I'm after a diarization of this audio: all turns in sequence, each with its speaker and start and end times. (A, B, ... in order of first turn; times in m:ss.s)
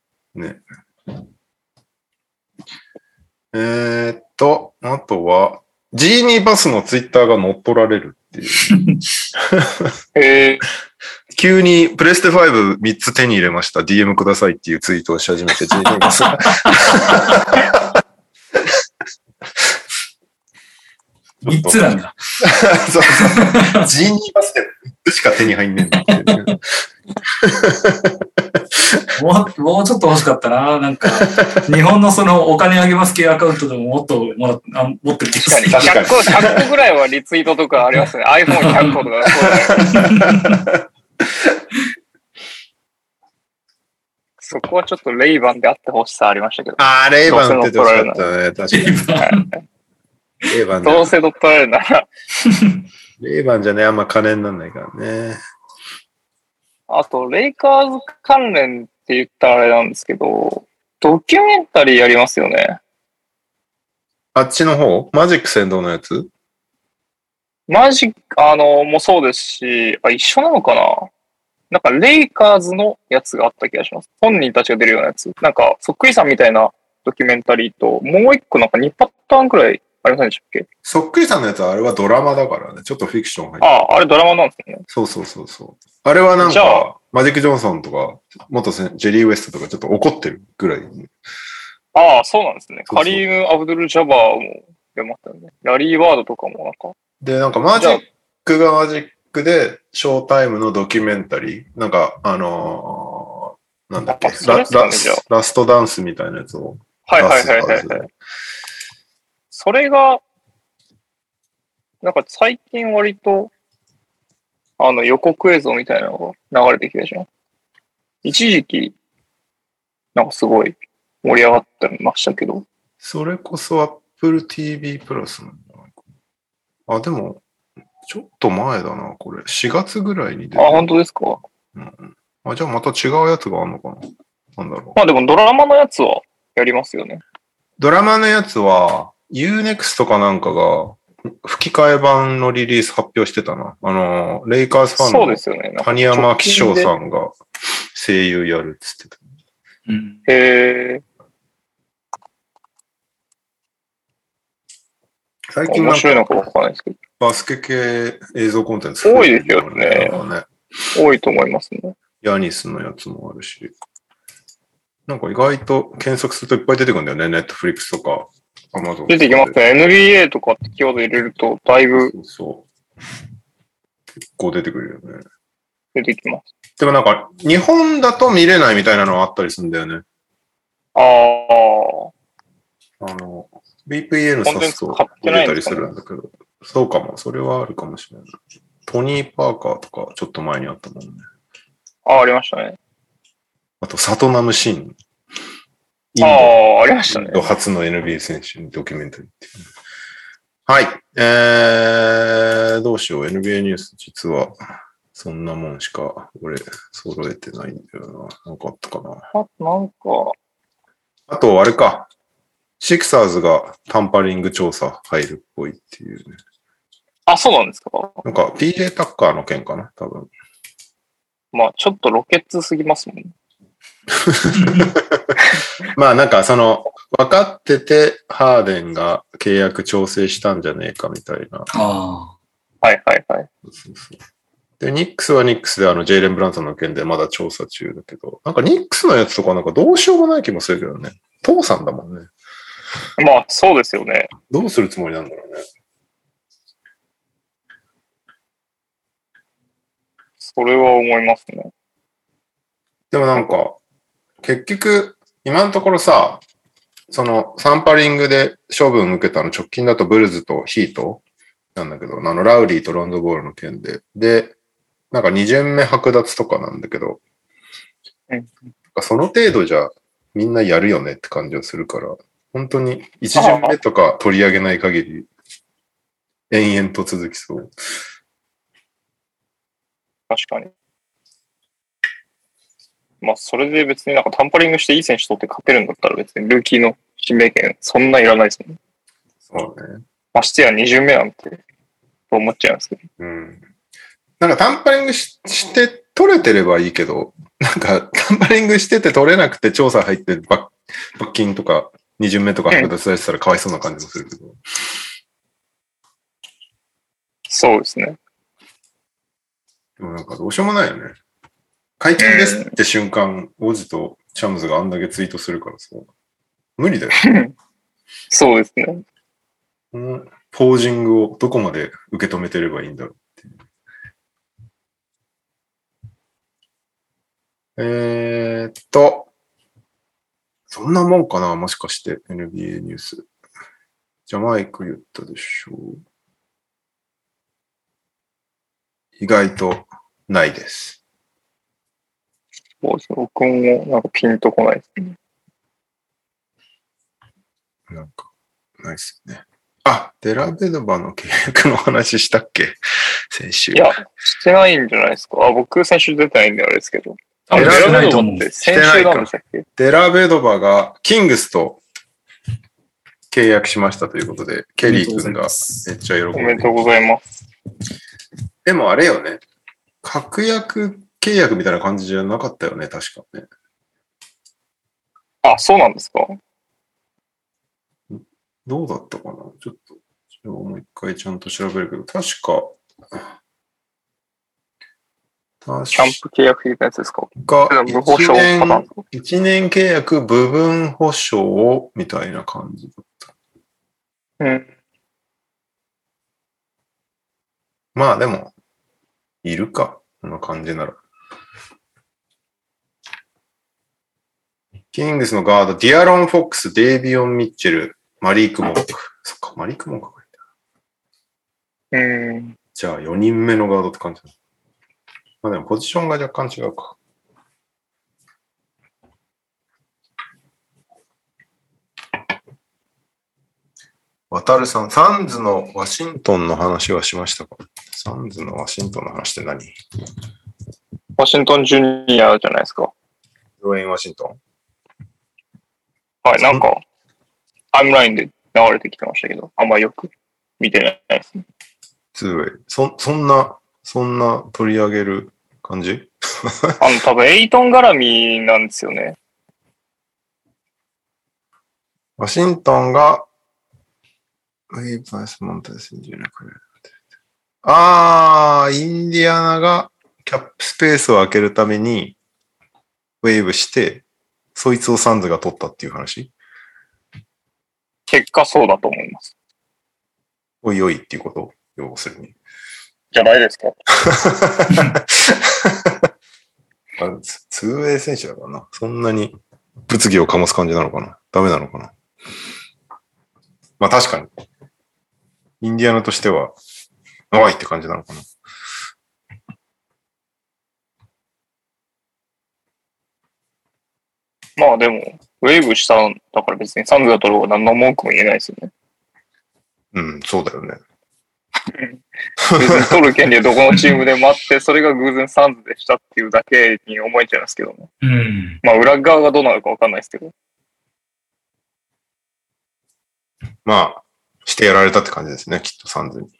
0:00.4-0:00.6 A
0:03.5-0:08.8 A
0:09.4-0:09.9 A
0:10.1-0:10.6 B
0:11.3-0:18.0 A
0:16.1-0:17.4 C
0:21.4-0:21.8 A
0:21.4-0:22.1 C
0:22.4-0:26.6 A
0:23.2-0:23.9 C
0:26.1-0:26.4 C
0:27.3-0:29.0 A
0:29.1-0:36.1 C
0:31.2-0:31.4 A
0:35.4-0:39.9 B
0:35.7-0:36.7 A
0:38.5-0:38.9 C
0:39.3-0:41.5 A
0:39.8-0:40.6 C
0:44.4-0:48.2 B
0:46.8-0:49.0 A
0:48.7-0:49.5 C
0:49.2-0:49.6 B
0:50.5-0:51.1 A
0:50.8-0:52.1 B
0:52.5-0:52.7 C
0:53.2-0:55.4 A
0:56.9-1:02.8 B
1:04.4-1:06.3 A
1:07.7-1:11.1 B
1:11.7-1:20.7 B
1:20.8-1:23.7 A
1:23.6-1:24.8 B
1:24.9-1:31.1 A
1:26.4-1:26.9 B
1:31.9-1:36.9 B
1:32.9-1:33.2 A
1:37.2-1:48.1 A
1:37.8-1:38.0 B
1:44.1-1:45.2 B
1:47.1-1:48.0 B
1:49.5-1:50.2 B
1:52.0-1:53.5 B
1:54.8-1:57.3 B
1:58.2-1:58.9 B
2:00.2-2:02.6 B
2:03.0-2:05.9 A
2:06.9-2:07.4 A
2:08.1-2:10.9 A
2:10.6-2:11.4 B
2:11.7-2:15.0 A
2:15.0-2:17.2 B
2:17.8-2:27.4 A
2:25.0-2:26.9 B
2:27.9-2:29.2 A
2:29.9-2:30.2 C
2:30.3-2:31.0 B
2:35.5-2:36.3 A
2:35.7-2:37.0 B
2:37.2-2:40.5 A
2:39.0-2:40.2 B
2:40.9-2:41.9 B
2:42.2-2:43.7 A
2:45.1-2:49.6 A
2:49.1-2:52.1 B
2:52.0-2:52.7 A
2:54.2-2:55.2 A
2:55.9-2:56.4 B
2:56.8-3:00.0 A
3:00.9-3:02.1 B
3:03.0-3:08.4 A
3:04.4-3:05.9 B
3:08.9-3:11.2 A
3:12.1-3:12.8 B
3:13.8-3:15.0 A
3:16.1-3:19.6 A
3:16.2-3:17.5 B
3:20.7-3:24.6 A
3:25.1-3:29.2 A
3:29.3-3:30.3 B
3:31.3-3:32.1 A
3:32.8-3:36.4 A
3:37.3-3:38.2 B
3:38.2-3:40.3 A
3:41.5-3:43.3 B
3:44.1-3:45.4 A
3:44.6-3:44.9 C
3:45.9-3:51.7 A
3:51.7-3:52.3 C
3:52.8-3:53.5 B
3:53.7-3:54.2 A
3:54.8-4:02.3 A
4:03.2-4:04.3 B
4:04.5-4:05.6 A
4:10.4-4:11.7 B
4:13.1-4:13.8 A
4:14.4-4:16.4 A
4:17.1-4:21.2 A
4:21.7-4:24.6 A
4:25.1-4:27.2 A
4:28.9-4:35.3 A
4:33.4-4:33.8 B
4:36.5-4:37.7 A
4:40.3-4:40.7 B
4:43.2-4:48.8 B
4:49.5-4:50.0 A
4:50.3-4:51.6 B
4:52.3-4:53.0 B
4:53.2-4:53.6 A
4:54.4-5:04.6 A
5:07.5-5:08.2 B
5:10.0-5:11.2 A
5:12.0-5:16.1 A
5:12.2-5:12.7 B
5:16.8-5:17.2 A
5:17.2-5:17.5 B
5:18.3-5:19.0 B
5:19.9-5:23.6 A
5:27.8-5:29.3 A
5:30.7-5:33.2 A
5:34.3-5:36.0 A
5:39.2-5:41.0 A
5:42.8-5:45.2 B
5:47.9-5:48.3 A
5:48.8-5:52.8 A
5:53.3-5:54.0 A
5:53.7-5:59.6 B
5:57.5-5:58.5 C
5:57.5-6:01.8 A
6:03.3-6:06.8 A
6:04.8-6:05.9 C
6:06.3-6:07.2 B
6:08.6-6:09.4 A
6:10.0-6:13.5 A
6:15.4-6:16.4 B
6:18.1-6:22.8 A
6:25.6-6:26.2 A
6:25.9-6:29.0 B
6:27.4-6:33.3 A
6:34.4-6:34.7 B
6:37.9-6:38.5 A
6:39.4-6:41.0 A
6:44.9-6:50.3 A
6:51.9-6:52.6 B
6:52.7-6:54.3 A
6:55.4-6:57.0 A
7:04.3-7:09.7 A
7:11.2-7:12.9 B
7:13.6-7:14.4 A
7:16.2-7:16.8 B
7:16.4-7:16.6 A
7:17.7-7:21.4 B
7:22.1-7:26.8 A
7:26.8-7:29.2 B
7:32.2-7:33.3 A
7:34.7-7:36.6 A
7:37.6-7:42.2 A
7:43.2-7:46.3 A
7:48.1-7:49.3 B
7:50.6-7:52.4 A
7:53.1-7:53.8 B
7:54.0-7:56.1 A
7:57.0-8:01.9 A
8:03.8-8:04.3 A
8:05.6-8:06.6 A
8:07.3-8:08.3 A
8:14.6-8:18.7 B
8:19.9-8:20.8 A
8:21.7-8:22.0 B
8:22.4-8:23.0 A
8:22.6-8:27.9 B
8:28.0-8:28.6 C
8:28.6-8:30.3 B
8:33.6-8:36.3 A